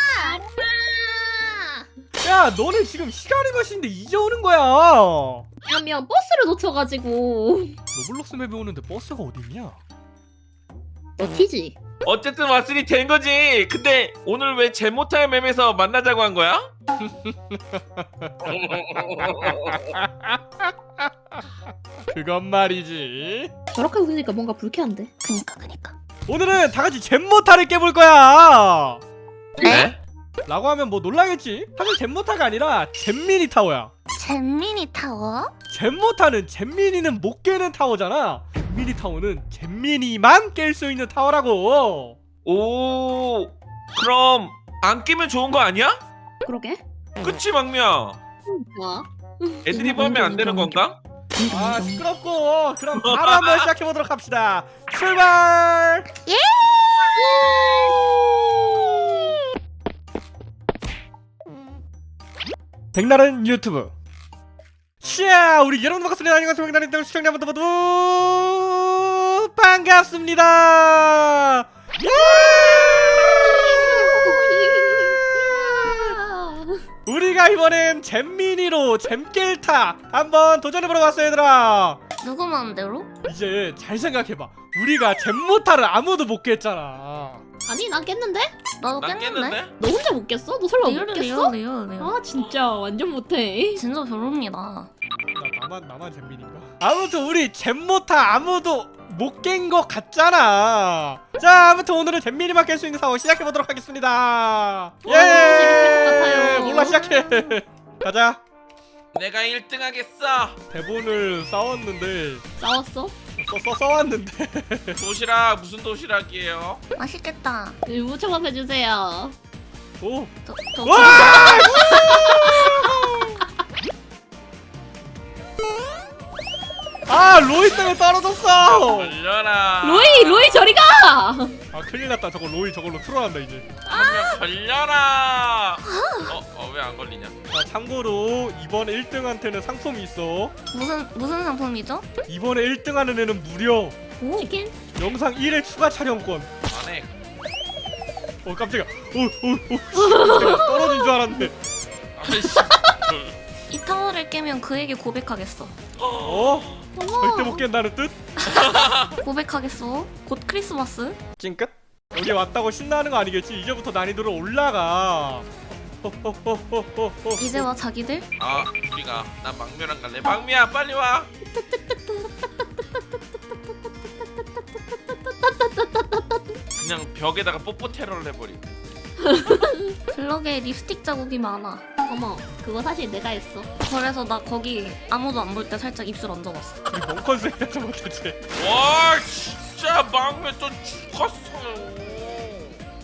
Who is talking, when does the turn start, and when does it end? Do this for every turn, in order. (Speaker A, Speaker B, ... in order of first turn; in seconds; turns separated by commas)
Speaker A: 0.2-1.8, Speaker B: 2.2-5.5, Speaker A: 5.7-7.8, Speaker B: 7.9-9.8, Speaker A: 11.2-11.8, Speaker C: 12.0-16.7, Speaker B: 17.0-21.4, Speaker C: 18.7-19.7, Speaker B: 22.1-23.5, Speaker A: 23.7-25.1, Speaker D: 25.2-25.9, Speaker B: 26.3-29.0, Speaker C: 29.6-30.0, Speaker B: 30.5-33.9, Speaker D: 34.1-35.5, Speaker B: 35.7-42.2, Speaker C: 42.4-46.0, Speaker A: 46.5-46.8, Speaker C: 47.2-48.2, Speaker A: 48.5-49.7, Speaker C: 49.6-51.0, Speaker D: 49.7-50.7, Speaker B: 51.4-56.0, Speaker C: 53.0-53.7, Speaker A: 57.2-58.0, Speaker B: 62.9-63.9, Speaker B: 65.0-76.1, Speaker A: 72.3-76.8, Speaker B: 77.0-82.0, Speaker D: 82.2-83.1, Speaker B: 83.2-87.4, Speaker A: 87.7-88.6, Speaker D: 88.8-89.6, Speaker C: 89.0-89.7, Speaker A: 89.8-93.8, Speaker D: 90.8-92.2, Speaker D: 93.7-94.9, Speaker B: 95.3-108.4, Speaker A: 105.0-107.0, Speaker D: 106.7-107.6, Speaker C: 109.1-110.6, Speaker B: 110.7-112.4, Speaker A: 112.6-113.1, Speaker B: 113.4-115.0, Speaker C: 114.9-116.8, Speaker D: 117.0-117.8, Speaker A: 117.8-119.3, Speaker B: 120.0-120.3, Speaker D: 120.5-121.9, Speaker B: 120.8-123.4, Speaker A: 121.7-122.9, Speaker B: 127.1-129.2, Speaker C: 128.5-130.7, Speaker A: 129.8-131.6, Speaker B: 131.7-133.7, Speaker D: 133.8-134.4, Speaker C: 133.8-137.3, Speaker D: 135.8-136.3, Speaker B: 137.5-140.5, Speaker D: 140.7-142.1, Speaker B: 142.3-143.9, Speaker D: 144.2-144.5, Speaker A: 144.4-144.8, Speaker B: 144.9-146.5, Speaker C: 146.7-147.3, Speaker B: 148.4-151.6, Speaker A: 150.1-150.9, Speaker C: 152.2-153.4, Speaker A: 152.3-152.9, Speaker D: 153.7-155.7, Speaker C: 156.0-156.9, Speaker B: 156.2-158.2, Speaker A: 157.0-157.6, Speaker D: 158.4-161.2, Speaker C: 158.4-159.2, Speaker B: 161.4-167.7, Speaker D: 167.4-168.3, Speaker C: 168.4-171.3, Speaker A: 171.5-172.3, Speaker A: 174.9-176.6, Speaker C: 176.8-178.7, Speaker A: 179.2-179.9, Speaker D: 180.1-181.8, Speaker A: 182.1-183.7, Speaker D: 183.8-186.8, Speaker B: 186.9-188.4, Speaker C: 188.5-192.8